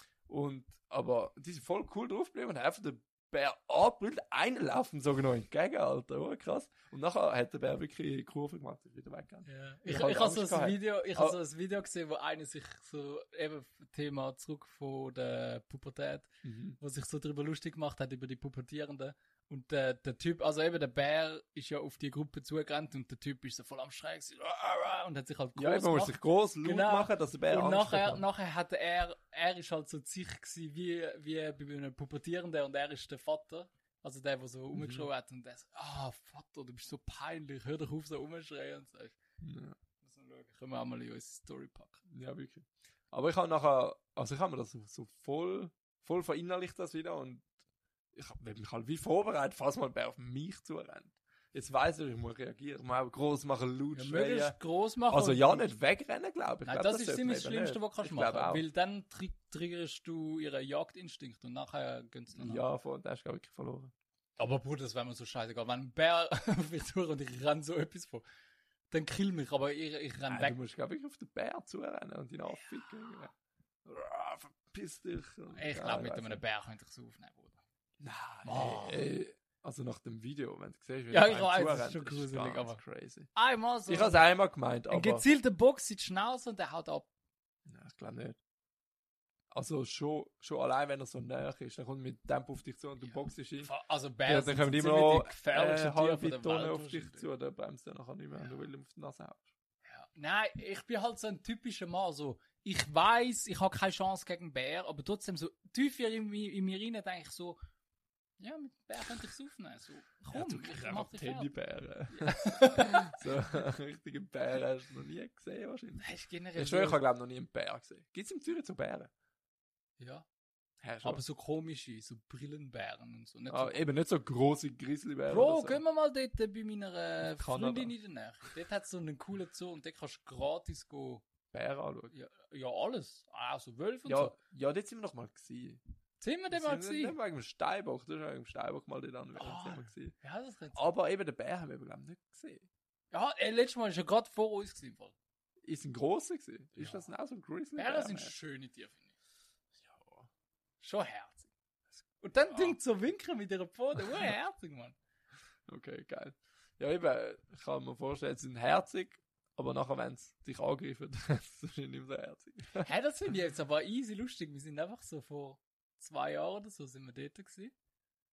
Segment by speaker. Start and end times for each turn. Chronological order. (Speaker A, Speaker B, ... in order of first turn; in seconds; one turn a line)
Speaker A: 0.3-11.4
Speaker B: 9.4-39.2
Speaker A: 16.4-16.8
Speaker A: 25.6-28.2
Speaker A: 34.7-35.1
Speaker A: 39.4-39.8
Speaker B: 40.0-42.0
Speaker A: 42.1-47.5
Speaker A: 48.1-54.6
Speaker B: 53.9-55.8
Speaker A: 55.1-58.6
Speaker B: 56.6-62.6
Speaker A: 62.3-63.9
Speaker B: 64.4-68.2
Speaker B: 68.9-70.5
Speaker A: 70.3-73.3
Speaker A: 73.8-76.4
Speaker B: 75.5-77.6
Speaker A: 78.0-83.3
Speaker B: 78.4-79.1
Speaker B: 81.1-82.8
Speaker B: 83.3-84.2
Speaker A: 83.9-85.3
Speaker B: 84.9-87.1
Speaker A: 87.7-88.4
Speaker A: 89.5-93.7
Speaker B: 93.1-97.3
Speaker A: 94.2-99.5
Speaker B: 99.8-107.6
Speaker B: 108.4-111.5
Speaker A: 110.3-116.0
Speaker B: 112.1-113.2
Speaker B: 116.0-117.0
Speaker A: 116.5-119.1
Speaker B: 120.0-120.2
Speaker A: 120.8-121.2
Speaker B: 121.0-123.8
Speaker A: 123.5-125.8
Speaker B: 125.3-131.2
Speaker A: 127.2-127.9
Speaker A: 131.5-132.1
Speaker B: 132.1-134.3
Speaker A: 134.1-135.8
Speaker B: 136.2-137.2
Speaker A: 136.5-140.1
Speaker B: 139.3-140.9
Speaker A: 140.7-142.7
Speaker B: 143.1-145.1
Speaker A: 145.6-148.3
Speaker B: 146.8-147.0
Speaker B: 147.8-149.1
Speaker A: 149.8-150.3
Speaker B: 150.8-151.5
Speaker B: 152.2-154.9
Speaker A: 152.5-152.8
Speaker A: 155.7-162.9
Speaker B: 162.8-167.7